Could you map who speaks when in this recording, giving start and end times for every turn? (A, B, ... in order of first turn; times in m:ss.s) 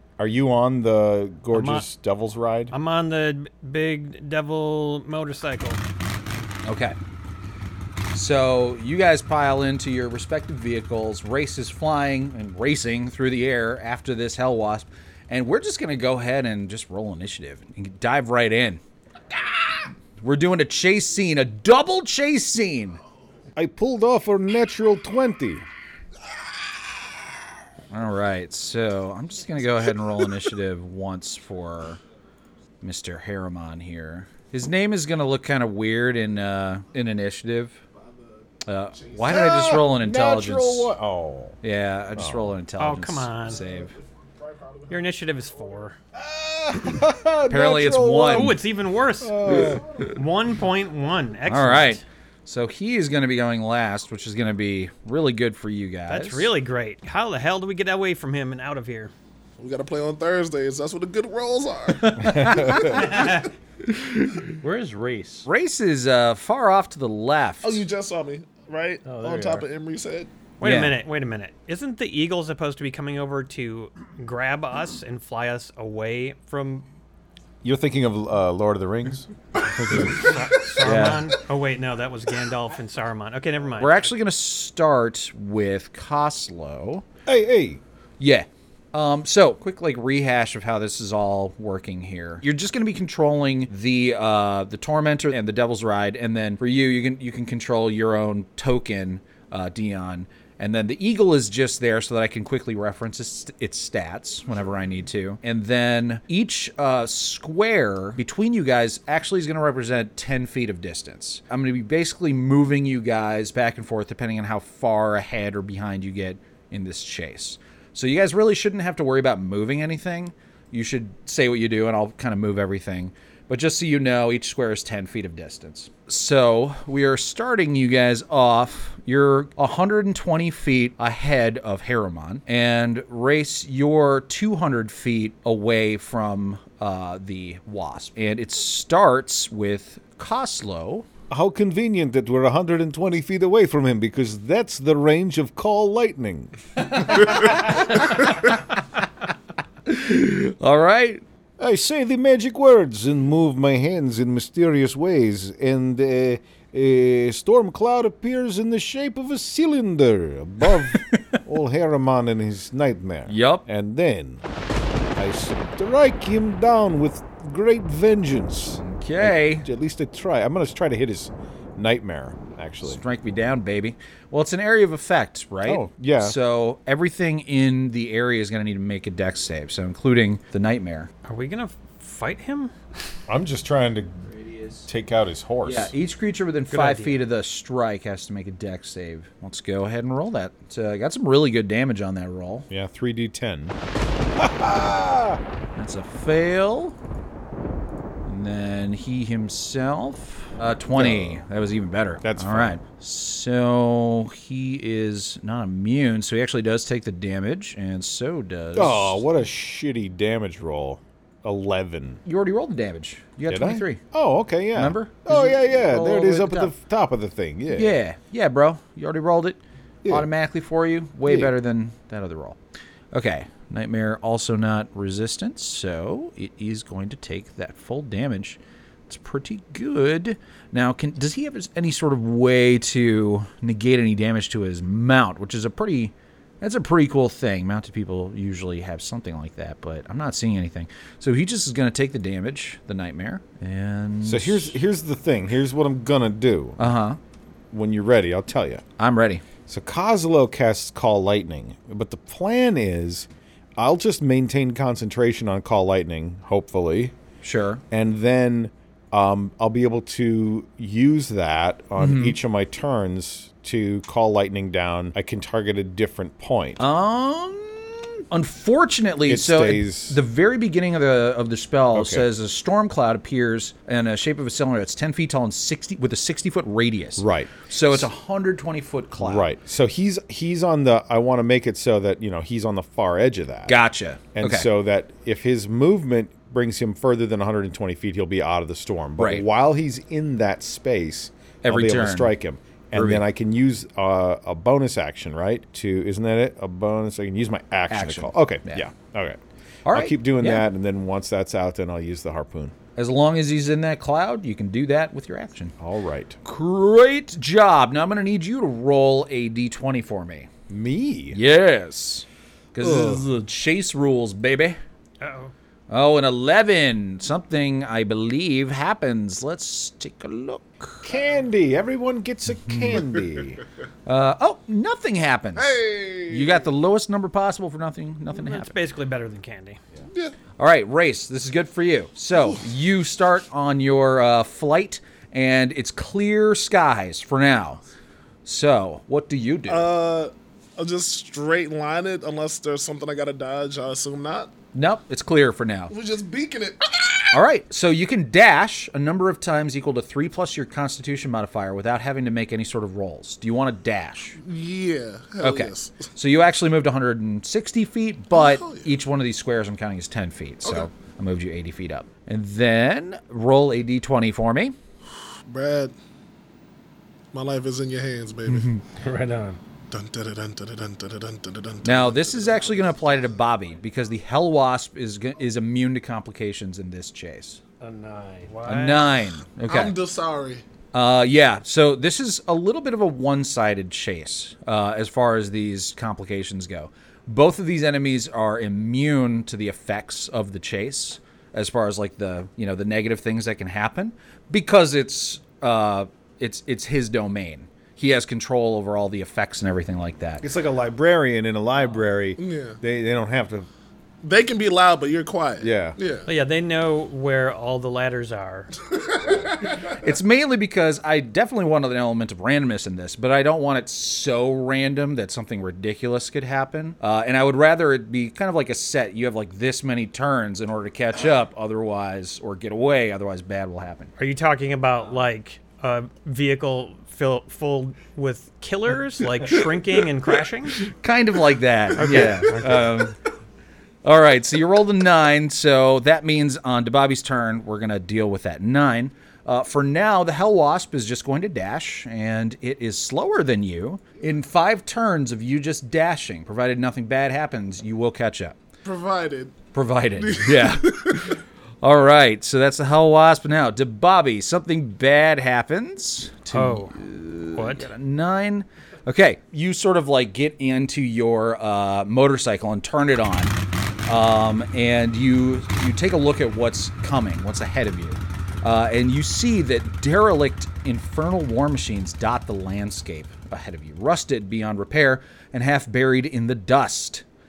0:00.2-0:02.7 A
0:01.5-0:01.8 B
0:02.7-0:05.8 B
0:06.6-0:07.0 C
0:08.1-0:18.8 C
0:20.2-0:23.0 C
0:23.6-0:25.6 A
0:27.9-0:32.0 C
0:32.8-0:37.8 C
0:38.6-0:40.9 C
0:39.0-0:39.4 D
0:39.3-0:41.6 A
0:41.6-0:43.9 C
0:42.2-0:42.6 A
0:42.8-0:43.6 B
0:43.5-0:45.1 D
0:44.9-0:46.0 B
0:46.1-0:48.6 A
0:47.5-0:48.6 C
0:48.2-0:52.0 B
0:49.2-0:49.8 A
0:51.4-0:56.5 C
0:56.1-0:59.1 B
0:59.6-1:03.4 D
1:02.0-1:04.5 C
1:02.4-1:02.7 A
1:04.6-1:05.5 E
1:05.4-1:07.8 C
1:07.6-1:10.3 D
1:09.0-1:09.6 E
1:10.6-1:16.8 B
1:10.6-1:11.0 C
1:17.6-1:20.4 A
1:19.9-1:24.0 B
1:20.8-1:21.2 C
1:23.8-1:27.0 C
1:27.2-1:27.8 A
1:28.2-2:21.0 C
2:21.3-2:26.6 A
2:26.8-2:28.8 C
2:27.1-2:27.5 A
2:29.8-2:31.2 C
2:31.6-2:44.4 A
2:40.8-2:41.4 C
2:43.3-2:43.6 C
2:45.2-2:53.0 A
2:48.8-2:49.7 C
2:52.8-3:01.1 C
2:55.6-2:56.4 A
3:01.2-3:02.7 B
3:03.3-3:04.3 A
3:04.3-3:04.9 C
3:04.9-3:05.9 A
3:05.6-3:12.7 C
3:06.7-3:07.2 B
3:12.7-3:13.8 A
3:14.4-3:15.4 A
3:15.8-3:16.9 C
3:18.2-3:29.2 C
3:20.9-3:21.4 A
3:22.2-3:22.8 A
3:28.7-3:32.2 A
3:32.2-3:34.0 C
3:33.5-3:37.9 A
3:34.7-3:36.7 C
3:37.7-3:42.6 C
3:40.0-3:40.3 A
3:41.3-3:41.5 A
3:43.1-4:04.7 C
4:04.2-4:06.8 A
4:06.8-4:07.2 C
4:07.7-4:08.8 A
4:09.0-4:09.4 C
4:09.7-4:17.1 A
4:17.4-4:17.8 C
4:17.9-4:26.8 A
4:22.0-4:22.4 C
4:26.8-4:39.5 C
4:29.3-4:30.2 A
4:31.9-4:32.2 A
4:37.2-4:38.1 A
4:39.2-4:43.8 A
4:43.7-4:44.7 C
4:44.3-4:59.4 A
4:49.2-4:49.4 C
4:51.6-4:52.3 C
4:52.9-4:53.2 C
4:57.9-4:58.9 C
4:59.8-5:00.6 C
4:59.9-5:02.7 A
5:03.0-5:05.7 C
5:05.8-5:06.4 A
5:06.4-5:10.5 C
5:10.7-5:11.4 A
5:11.3-5:14.8 C
5:12.8-5:13.2 A
5:15.2-5:15.5 B
5:15.9-5:21.1 C
5:21.0-5:23.6 A
5:22.5-5:23.0 C
5:24.0-5:28.7 C
5:25.6-5:26.7 D
5:28.3-5:29.8 B
5:30.6-5:37.8 C
5:38.4-5:39.9 C
5:39.7-5:44.5 D
5:44.7-5:45.9 C
5:45.9-5:47.3 D
5:47.3-5:54.4 C
5:54.4-5:56.0 D
5:55.4-6:04.7 C
5:58.3-5:58.9 D
6:00.6-6:00.9 D
6:05.4-6:05.9 D
6:07.3-6:08.7 D
6:08.5-6:08.8 C
6:08.9-6:09.6 E
6:09.9-6:13.1 D
6:11.8-6:17.6 C
6:17.8-6:18.6 E
6:18.5-6:19.1 B
6:18.6-6:20.0 C
6:19.6-6:20.6 D
6:20.9-6:40.4 C
6:40.4-6:43.7 A
6:42.4-6:42.8 D
6:44.2-6:46.3 D
6:45.6-6:46.0 A
6:46.2-6:48.8 B
6:48.9-6:49.9 D
6:49.8-7:04.1 C
7:04.2-7:10.9 B
7:10.8-7:13.2 C
7:12.0-7:13.0 B
7:14.0-7:28.6 C
7:28.8-7:29.6 D
7:29.7-7:43.5 C
7:30.2-7:31.3 D
7:36.5-7:37.0 B
7:37.5-7:37.9 B
7:44.1-7:57.2 C